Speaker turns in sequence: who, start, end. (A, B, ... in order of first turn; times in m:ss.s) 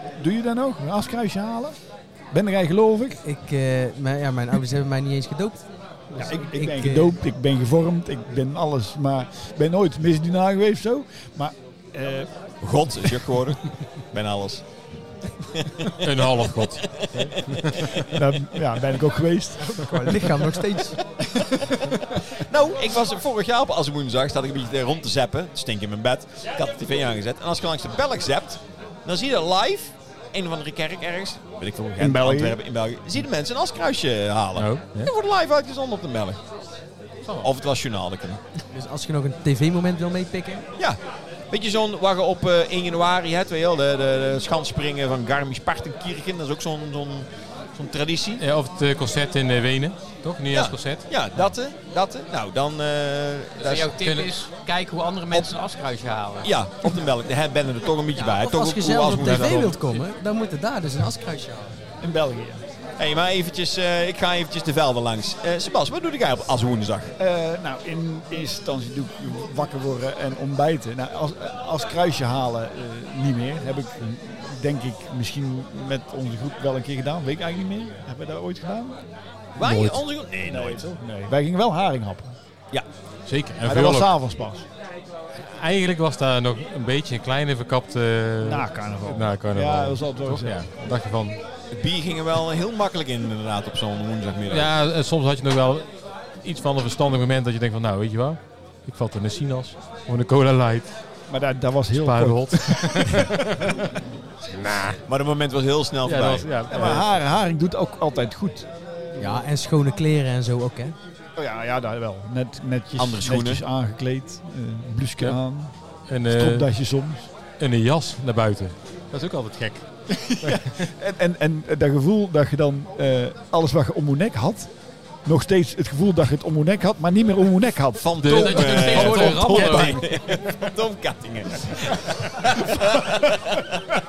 0:00.2-0:01.8 A
0:02.3-0:03.2 A
0:03.2-0:07.1 B
0:06.1-0:12.3 A
0:12.6-0:14.7 C
0:15.4-0:18.1 C
0:16.0-0:17.6 D
0:18.0-0:20.3 A
0:19.6-0:21.0 B
0:21.4-0:36.4 C
0:32.0-0:32.6 A
0:34.6-0:35.1 D
0:37.4-0:38.4 C
0:38.7-0:40.7 B
0:41.5-0:48.4 C
0:48.4-0:51.1 D
0:50.5-0:53.9 C
0:53.6-0:56.5 E
0:54.0-0:54.3 D
0:56.4-0:59.8 C
0:58.2-1:01.8 B
0:59.2-0:59.7 D
1:02.0-1:02.6 A
1:03.0-1:07.1 C
1:07.2-1:19.0 A
1:19.5-1:21.0 C
1:19.6-1:22.3 A
1:23.2-1:24.1 D
1:23.6-1:24.6 A
1:25.4-1:31.4 D
1:28.4-1:30.6 A
1:31.7-1:34.7 C
1:34.5-1:40.9 D
1:41.3-1:43.4 A
1:41.9-1:43.8 D
1:44.4-1:45.0 D
1:45.1-1:46.9 C
1:46.0-1:47.0 D
1:46.7-1:49.4 A
1:49.2-1:50.9 B
1:51.4-1:55.7 A
1:53.0-1:53.6 C
1:56.1-1:56.7 D
1:56.3-1:57.3 A
1:57.6-1:59.9 D
2:00.2-2:04.7 A
2:00.4-2:00.9 D
2:05.2-2:08.1 A
2:08.0-2:13.9 C
2:08.2-2:10.4 D
2:08.2-2:10.0 E